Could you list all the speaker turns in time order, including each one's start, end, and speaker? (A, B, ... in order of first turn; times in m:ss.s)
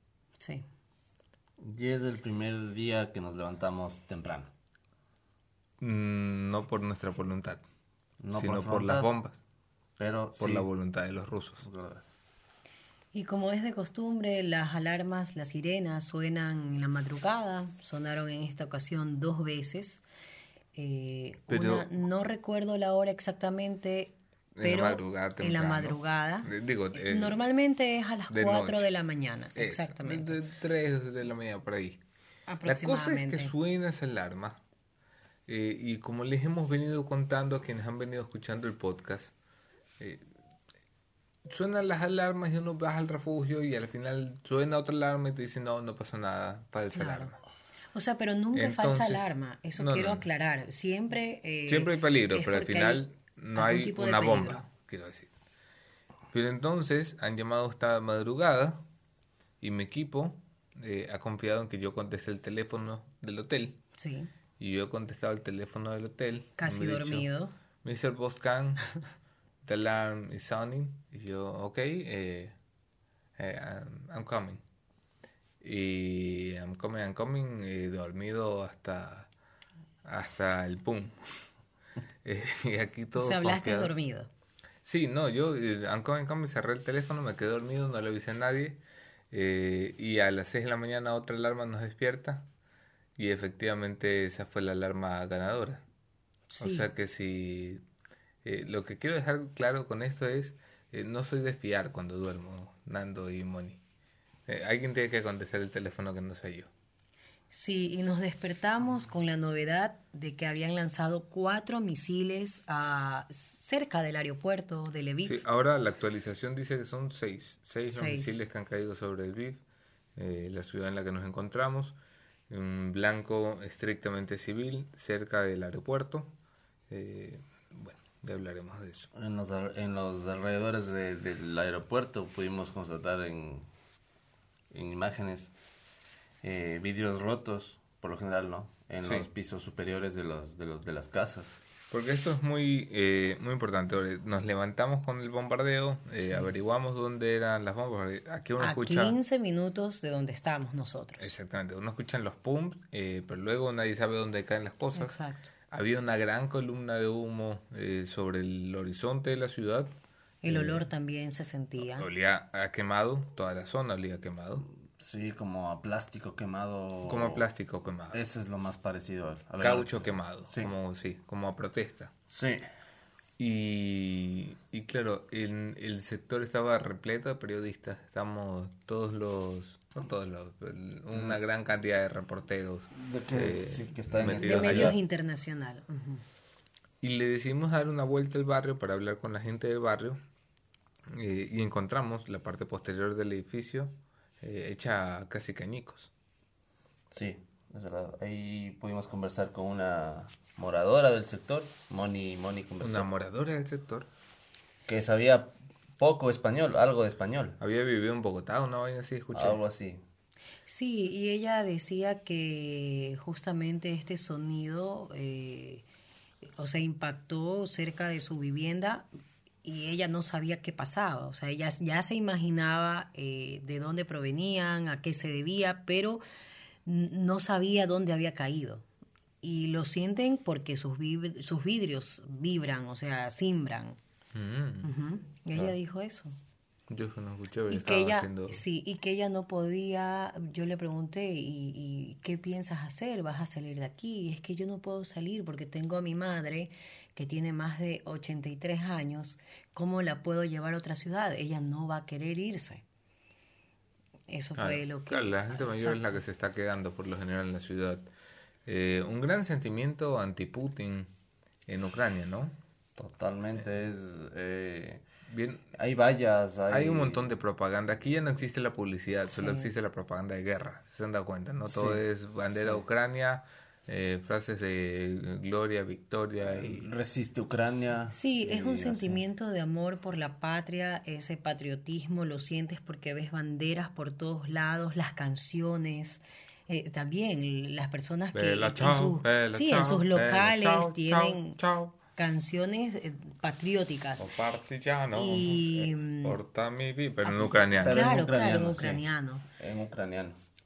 0:00.4-0:00.6 A
0:01.6-0:04.5 B
0:05.8-0:07.6 C
0:08.2-0:09.1 B
0:08.3-0:09.4 C
0:10.0-0:10.7 B
0:10.4-0:11.6 C
0:11.6-0:12.0 B
0:13.1-0:20.0 A
0:20.7-0:30.4 A
0:21.5-0:22.0 C
0:24.5-0:27.4 C
0:28.3-0:28.9 C
0:29.6-0:32.0 C
0:32.5-0:33.5 A
0:32.6-0:34.6 C
0:35.5-0:39.3 C
0:40.0-0:40.2 C
0:41.4-0:47.4 C
0:46.9-0:47.3 A
0:47.9-0:53.0 A
0:48.5-0:50.2 C
0:51.7-0:55.3 C
0:53.5-0:54.6 A
0:56.3-0:58.8 C
0:59.6-1:03.8 C
1:04.0-1:04.3 A
1:04.6-1:07.3 C
1:06.6-1:07.5 A
1:07.8-1:08.8 C
1:09.6-1:12.5 C
1:13.4-1:14.6 C
1:15.6-1:19.3 C
1:20.0-1:21.2 C
1:22.2-1:24.0 C
1:23.1-1:24.3 A
1:24.8-1:28.8 C
1:29.3-1:32.5 C
1:33.2-1:35.8 C
1:36.5-1:36.9 A
1:36.6-1:37.8 C
1:38.4-1:43.8 C
1:44.5-1:46.7 C
1:47.5-1:55.4 A
1:55.2-1:59.6 C
1:57.9-1:58.4 A
2:00.2-2:02.0 C
2:02.5-2:06.3 C
2:06.9-2:09.1 C
2:09.1-2:13.6 B
2:14.7-2:15.5 B
2:16.4-2:21.6 B
2:19.0-2:19.3 C
2:21.9-2:29.2 C
2:26.2-2:26.5 A
2:28.6-2:31.3 A
2:31.2-2:35.2 C
2:34.9-2:35.5 A
2:35.7-2:39.9 C
2:40.4-2:42.1 A
2:40.5-2:40.8 C
2:41.8-2:44.6 C
2:45.0-2:47.4 B
2:47.0-2:48.2 C
2:48.1-2:50.8 B
2:49.6-2:52.1 C
2:52.3-2:52.6 B
2:53.4-3:05.0 C
3:01.1-3:01.4 B
3:02.9-3:05.0 B
3:04.2-3:06.2 A
3:07.0-3:10.2 C
3:11.1-3:16.1 C
3:17.1-3:23.1 B
3:22.8-3:24.1 C
3:24.8-3:27.6 B
3:27.6-3:29.6 C
3:29.3-3:30.0 B
3:30.7-3:35.8 A
3:36.6-3:39.1 A
3:39.6-3:46.2 A
3:46.8-3:48.8 A
3:49.4-3:54.0 A
3:54.3-3:54.9 C
3:54.8-3:56.3 A
3:56.9-3:58.6 C
3:57.7-4:12.8 A
4:14.3-4:16.2 A
4:14.6-4:18.1 C
4:18.6-4:21.1 C
4:21.7-4:22.5 C
4:23.0-4:25.0 B
4:25.3-4:25.6 C
4:25.7-4:27.3 B
4:26.7-4:36.9 C
4:29.3-4:29.7 A
4:31.7-4:32.0 B
4:32.5-4:32.8 B
4:36.5-4:39.2 B
4:38.1-4:51.6 A
4:48.3-4:51.9 C
4:52.2-4:54.3 A
4:54.2-4:58.1 C
4:55.1-4:56.4 A
4:57.2-4:59.4 A
4:57.8-4:59.0 B
4:59.5-5:00.4 B